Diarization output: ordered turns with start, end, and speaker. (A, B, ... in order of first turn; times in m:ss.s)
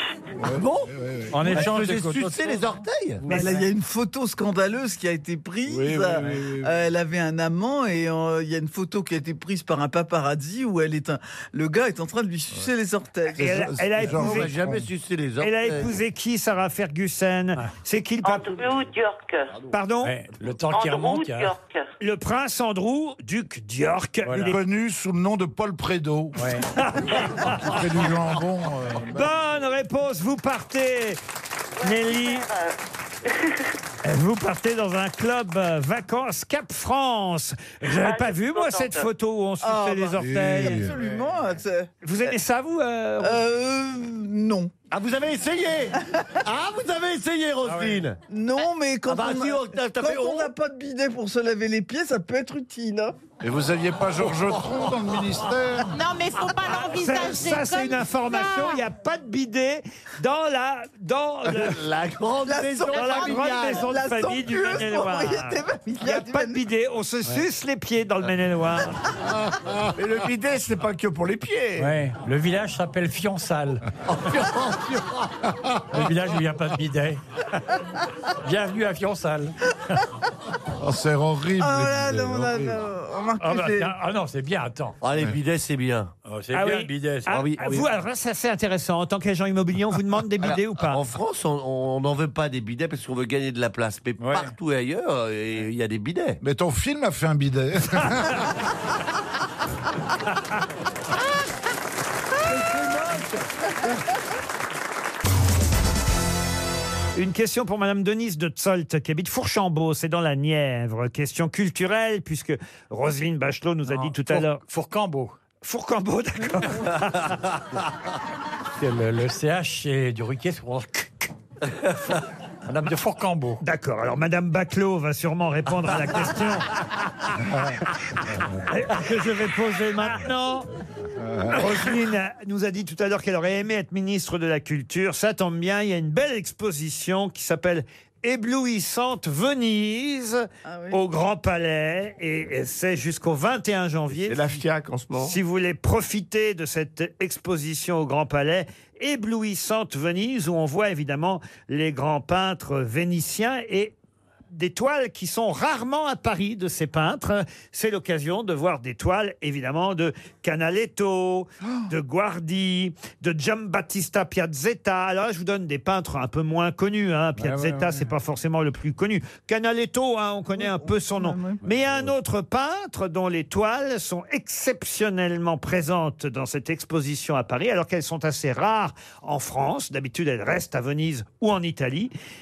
0:00.4-0:01.6 A
0:00.5-0:03.2 B
0:01.3-0:02.7 C
0:03.2-0:03.6 C
0:03.3-0:13.5 D
0:03.3-0:03.6 E
0:05.6-0:06.7 A
0:13.3-0:14.9 A
0:13.3-0:14.5 E
0:14.1-0:16.0 B
0:15.4-0:18.7 E
0:18.2-0:19.6 F
0:19.7-0:20.1 E
0:20.0-0:21.5 C
0:20.7-0:21.9 F
0:22.0-0:24.6 E
0:24.2-0:24.5 C
0:24.3-0:26.6 A
0:26.4-0:26.7 C
0:26.7-0:27.8 E
0:27.4-0:29.3 A
0:29.1-0:31.2 E
0:31.8-0:33.6 F
0:31.8-0:32.5 E
0:34.0-0:40.9 E
0:37.8-0:39.1 F
0:39.6-0:42.3 D
0:40.2-0:41.0 A
0:42.0-0:43.4 E
0:43.2-0:44.7 D
0:44.9-0:48.2 B
0:47.6-0:48.0 C
0:48.3-0:53.2 D
0:49.1-0:50.5 B
0:53.4-0:55.9 A
0:54.2-0:55.5 B
0:55.9-0:58.8 G
0:56.7-1:01.8 E
1:01.4-1:03.8 B
1:02.4-1:06.6 D
1:02.9-1:09.0 E
1:09.4-1:09.7 A
1:10.0-1:12.0 H
1:11.8-1:14.4 C
1:14.1-1:15.3 B
1:15.9-1:17.2 C
1:18.4-1:20.0 C
1:20.8-1:22.8 A
1:21.6-1:23.9 D
1:23.4-1:25.0 C
1:25.0-1:26.1 B
1:26.2-1:27.4 C
1:26.5-1:31.0 E
1:27.3-1:27.9 B
1:30.9-1:36.4 B
1:34.2-1:34.5 C
1:36.4-1:38.4 A
1:43.0-1:43.3 C
1:47.2-1:54.6 E
1:53.9-1:55.4 C
1:55.6-1:57.5 E
1:58.8-2:01.3 C
2:02.6-2:03.6 C
2:03.6-2:06.7 E
2:08.6-2:10.7 E
2:11.2-2:11.6 A
2:11.5-2:24.5 E
2:20.6-2:21.0 D
2:24.1-2:25.4 H
2:25.2-2:33.9 E
2:34.5-3:02.1 E
2:47.4-2:48.0 C
2:50.6-2:51.6 D